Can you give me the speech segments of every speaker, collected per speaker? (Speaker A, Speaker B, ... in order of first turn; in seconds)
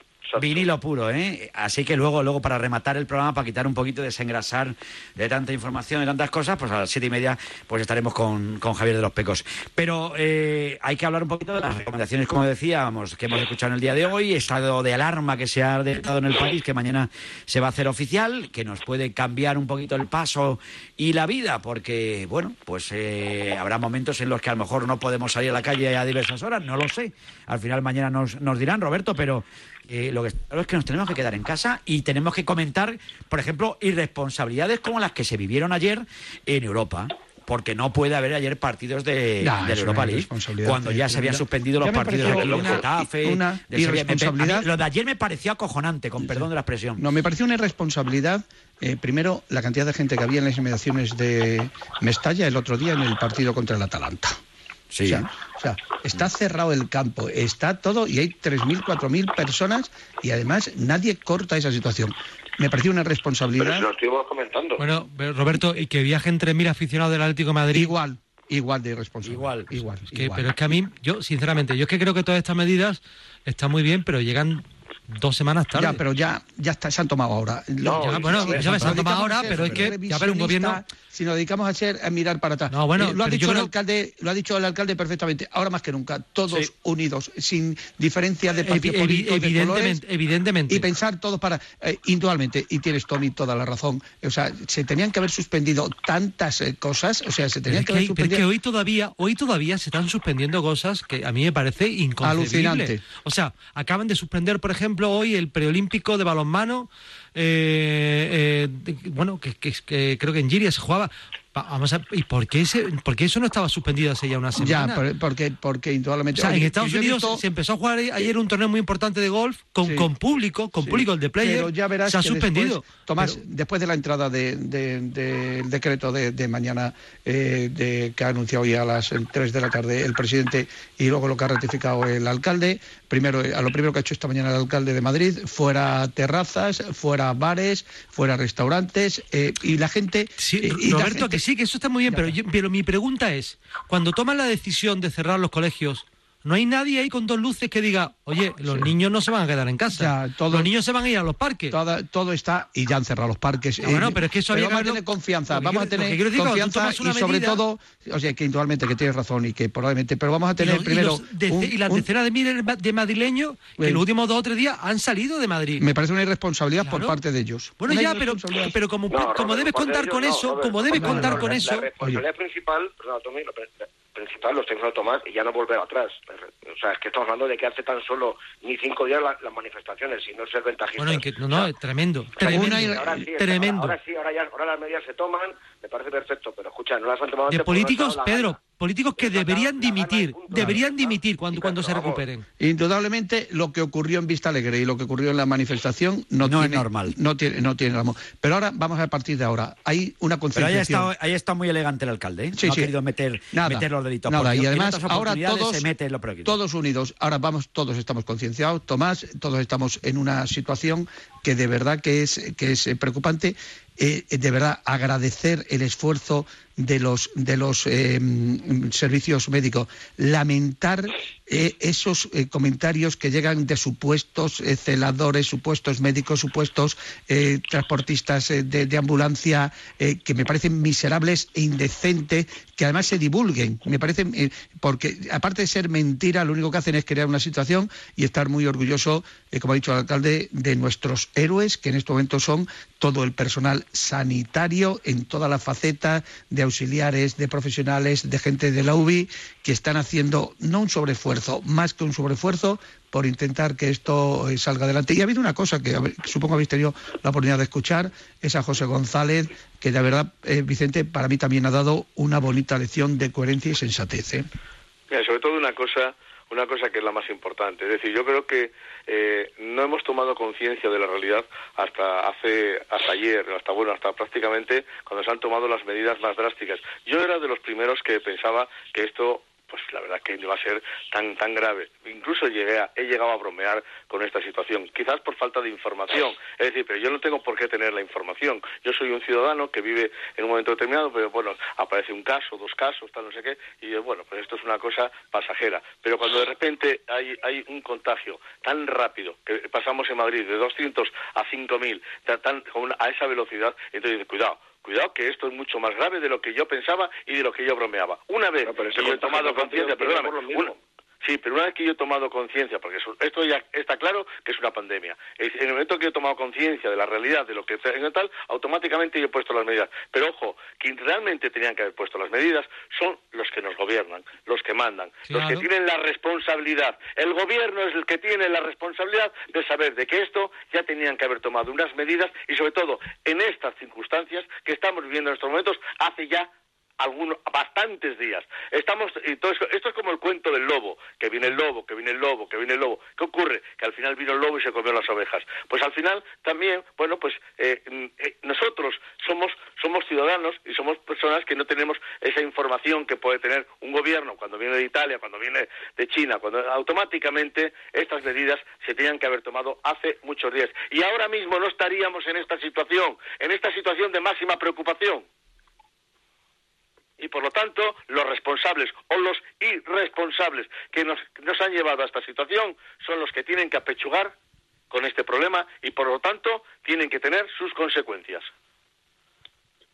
Speaker A: 0.4-47.0, 54.9-55.2, 69.2-69.8, 196.4-197.2, 200.6-206.6
Speaker B: 39.4-44.7, 46.2-46.5, 47.0-54.4, 55.1-63.9, 67.7-70.7, 75.8-90.0, 90.7-98.4, 102.2-103.0, 114.6-117.4, 119.8-120.1, 120.8-141.4, 148.6-148.9, 149.9-150.7, 151.7-162.0, 165.8-168.7, 170.9-172.2, 182.5-183.3, 190.5-190.8, 192.6-201.1, 202.6-202.9, 203.5-205.8, 206.4-264.5
Speaker C: 63.6-64.8, 77.8-78.8, 169.1-181.7, 182.4-188.6, 189.2-192.2, 308.7-310.8
Speaker D: 64.8-68.0, 70.1-74.6, 75.2-76.0, 78.0-80.8, 82.7-83.7, 88.6-90.9, 97.7-115.0, 116.3-123.4, 140.4-151.8, 153.8-157.6, 160.6-165.8, 166.8-167.2, 167.8-171.9, 181.0-184.0, 187.5-192.4, 325.3-325.7
Speaker E: 265.1-336.5, 337.0-365.2, 367.2-374.3, 374.9-378.5